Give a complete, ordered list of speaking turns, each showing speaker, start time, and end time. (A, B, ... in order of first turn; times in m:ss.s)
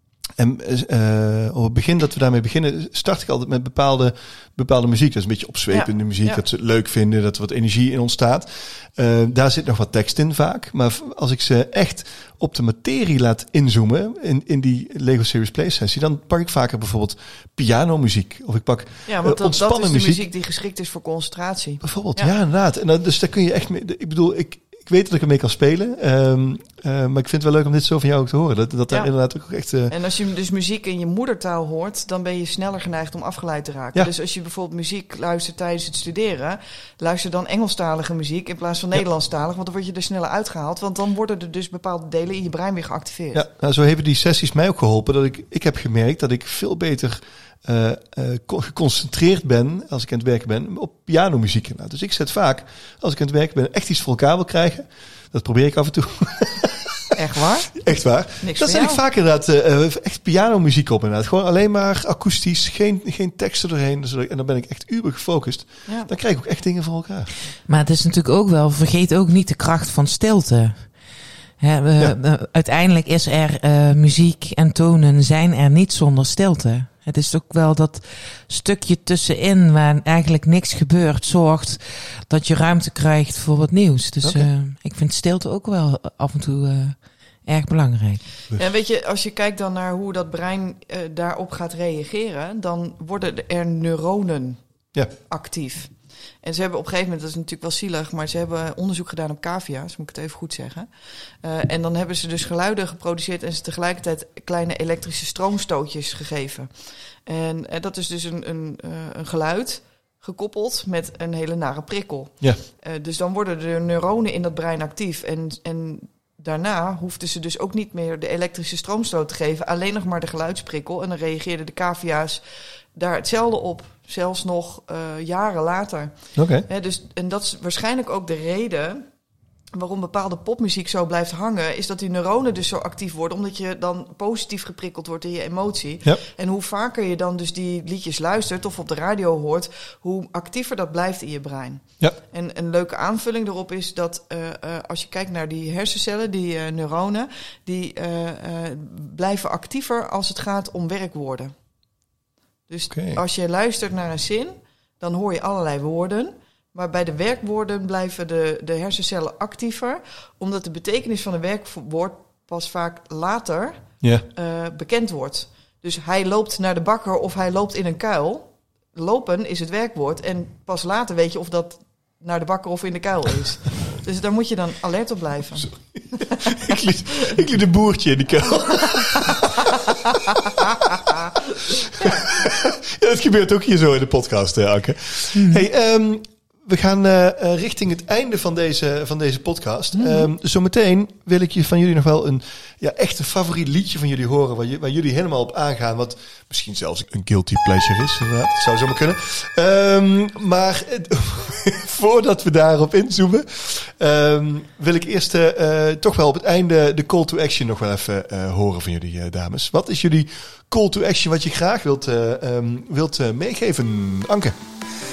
0:00.4-0:20.2 A
0:05.7-0:06.4 B
0:19.1-0:22.3 B
0:21.8-0:29.9 A
0:29.9-0:43.4 B
0:43.3-0:57.1 A
0:57.1-0:59.0 B
0:57.7-1:07.3 A
1:07.7-1:11.0 C
1:11.6-1:28.2 C
1:24.2-1:24.5 A
1:28.6-1:34.6 B
1:35.3-1:40.9 B
1:41.4-1:46.7 B
1:47.2-2:02.4 B
2:02.9-2:09.1 B
2:06.4-2:06.6 A
2:09.7-2:31.5 B
2:32.7-2:56.4 B
2:32.9-2:33.2 A
2:44.0-2:44.2 A
2:55.6-2:59.5 A
2:58.9-2:59.3 B
3:01.7-3:34.6 A
3:05.3-3:05.7 C
3:09.9-3:10.3 B